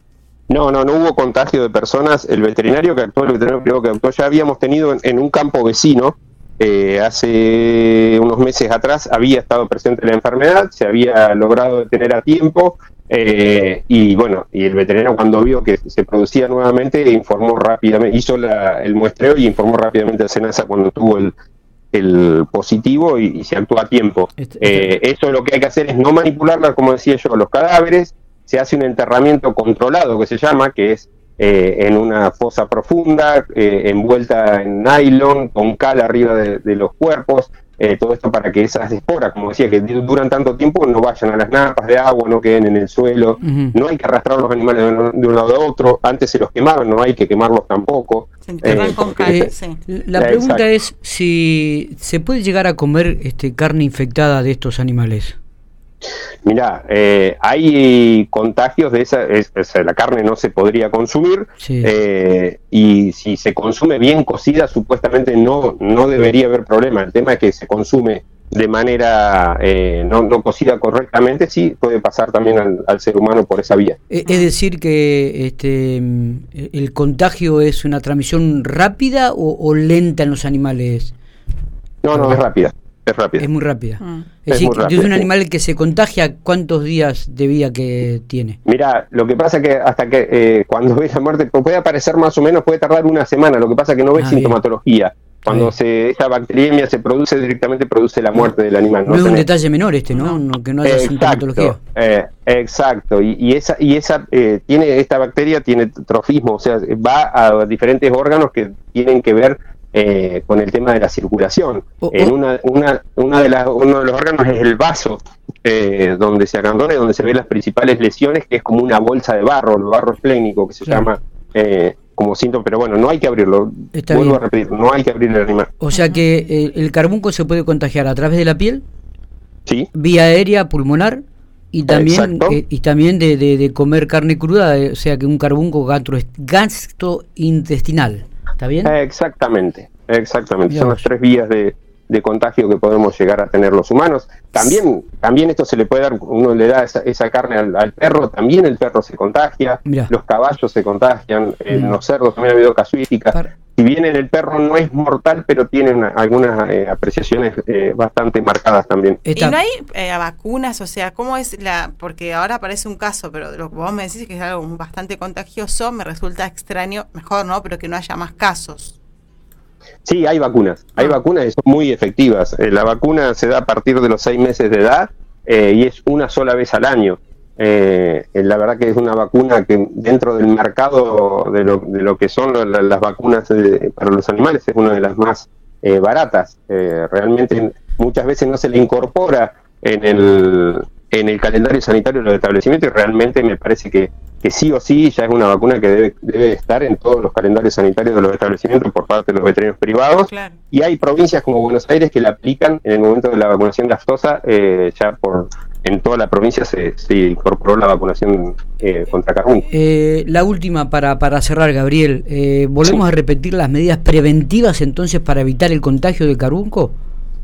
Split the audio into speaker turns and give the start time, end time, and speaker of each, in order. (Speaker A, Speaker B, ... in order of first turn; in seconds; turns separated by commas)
Speaker A: 0.5-21.3, Speaker A: 21.9-49.4, Speaker B: 24.4-24.9, Speaker B: 43.4-43.8, Speaker C: 48.5-49.8, Speaker B: 48.7-55.4, Speaker A: 50.2-50.6, Speaker A: 56.5-74.0, Speaker B: 61.6-61.9, Speaker B: 74.1-81.1, Speaker C: 74.2-74.5, Speaker A: 82.0-83.5, Speaker B: 82.1-82.4, Speaker B: 83.4-88.6, Speaker C: 84.0-84.3, Speaker A: 84.5-85.3, Speaker A: 88.7-99.5, Speaker B: 94.2-94.6, Speaker B: 95.5-95.7, Speaker B: 99.1-101.8, Speaker C: 100.1-100.4, Speaker A: 100.8-125.7, Speaker B: 112.0-112.3, Speaker B: 123.9-124.4, Speaker B: 125.8-128.8, Speaker C: 125.9-126.2, Speaker B: 129.9-138.9, Speaker A: 131.9-132.6, Speaker A: 138.8-159.2, Speaker B: 140.7-141.0, Speaker B: 149.9-150.1, Speaker B: 151.7-152.0, Speaker B: 159.2-159.6, Speaker C: 159.4-168.9, Speaker A: 170.1-209.7, Speaker C: 200.3-200.6, Speaker B: 209.7-216.9